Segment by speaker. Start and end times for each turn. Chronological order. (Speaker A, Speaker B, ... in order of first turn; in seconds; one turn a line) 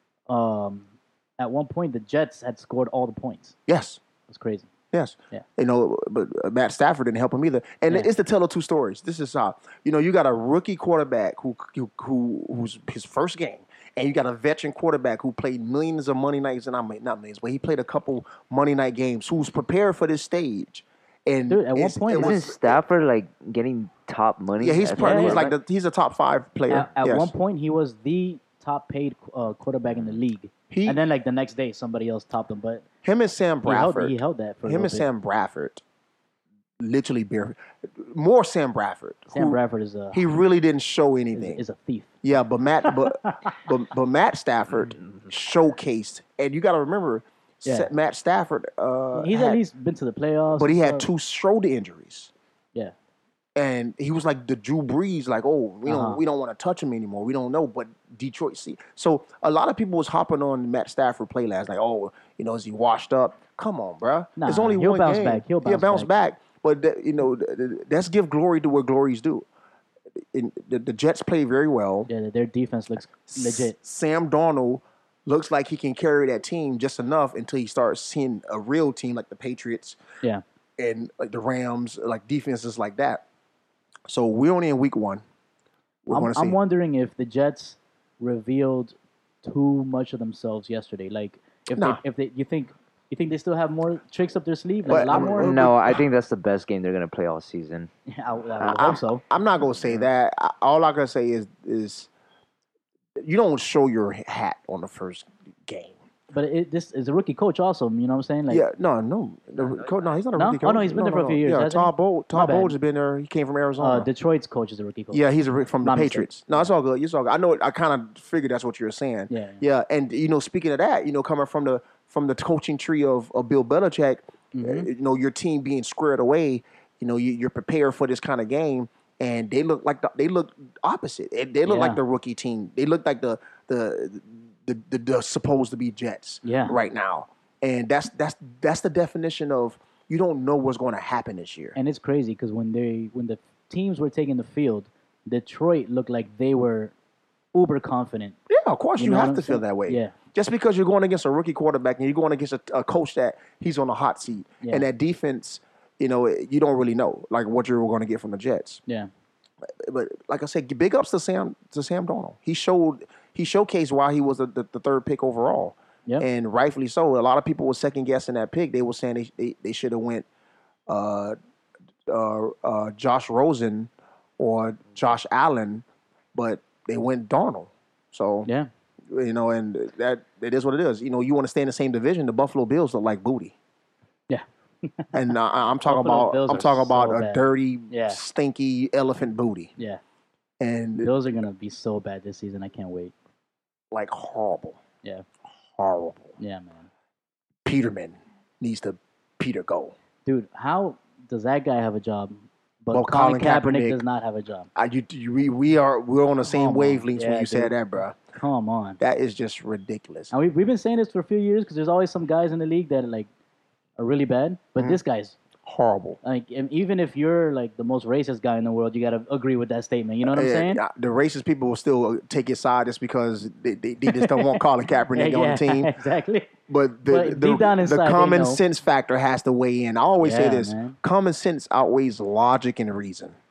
Speaker A: 0.3-3.6
Speaker B: 3.7-4.0
Speaker A: 4.3-4.7
Speaker B: 4.9-22.8
Speaker A: 21.5-22.4
Speaker C: 22.1-25.5
Speaker B: 24.6-27.3
Speaker A: 25.0-25.5
Speaker A: 26.7-32.8
Speaker B: 30.7-31.0
Speaker B: 33.0-35.8
Speaker A: 33.6-35.1
Speaker B: 36.8-39.6
Speaker A: 39.3-40.2
Speaker B: 40.1-41.6
Speaker A: 41.4-42.2
Speaker B: 42.2-49.6
Speaker A: 42.8-43.6
Speaker A: 47.6-47.9
Speaker A: 49.1-51.1
Speaker B: 50.5-52.3
Speaker B: 53.6-69.5
Speaker A: 55.9-56.2
Speaker A: 64.4-66.1
Speaker B: 70.3-72.1
Speaker A: 72.1-73.8
Speaker B: 73.3-80.0
Speaker B: 80.8-83.2
Speaker B: 84.1-85.2
Speaker B: 86.1-86.6
Speaker A: 86.1-95.6
Speaker B: 91.8-92.0
Speaker B: 94.9-96.0
Speaker C: 94.9-97.9
Speaker A: 98.1-99.2
Speaker B: 98.6-102.1
Speaker C: 99.7-100.0
Speaker B: 103.2-106.0
Speaker A: 106.3-108.6
Speaker B: 108.5-114.1
Speaker C: 109.5-110.1
Speaker A: 110.3-112.8
Speaker A: 113.8-115.2
Speaker B: 115.1-141.8
Speaker A: 115.8-116.6
Speaker A: 119.3-119.6
Speaker A: 124.5-124.9
Speaker A: 131.7-132.0
Speaker A: 136.4-136.8
Speaker A: 141.8-146.9
Speaker A: 147.5-148.4
Speaker B: 148.5-158.8
Speaker A: 149.0-150.2
Speaker B: 159.8-170.3
Speaker B: 170.9-171.4
Speaker B: 172.1-178.5
Speaker B: 179.1-183.6
Speaker A: 184.3-185.1
Speaker B: 185.1-189.7
Speaker A: 185.8-188.2
Speaker B: 190.6-191.1
Speaker A: 191.0-193.1
Speaker B: 193.9-194.8
Speaker B: 195.7-196.3
Speaker A: 196.4-196.9
Speaker B: 197.7-199.9
Speaker A: 200.3-204.7
Speaker B: 202.9-204.0
Speaker B: 204.8-208.2
Speaker A: 206.4-207.8
Speaker A: 208.4-209.0
Speaker B: 209.0-210.3
Speaker A: 210.3-213.3
Speaker A: 214.0-215.4
Speaker B: 215.6-216.2
Speaker A: 216.2-220.8
Speaker B: 220.2-225.9
Speaker A: 224.1-224.6
Speaker A: 225.1-226.5
Speaker B: 226.7-233.4
Speaker A: 227.1-228.6
Speaker A: 230.2-231.0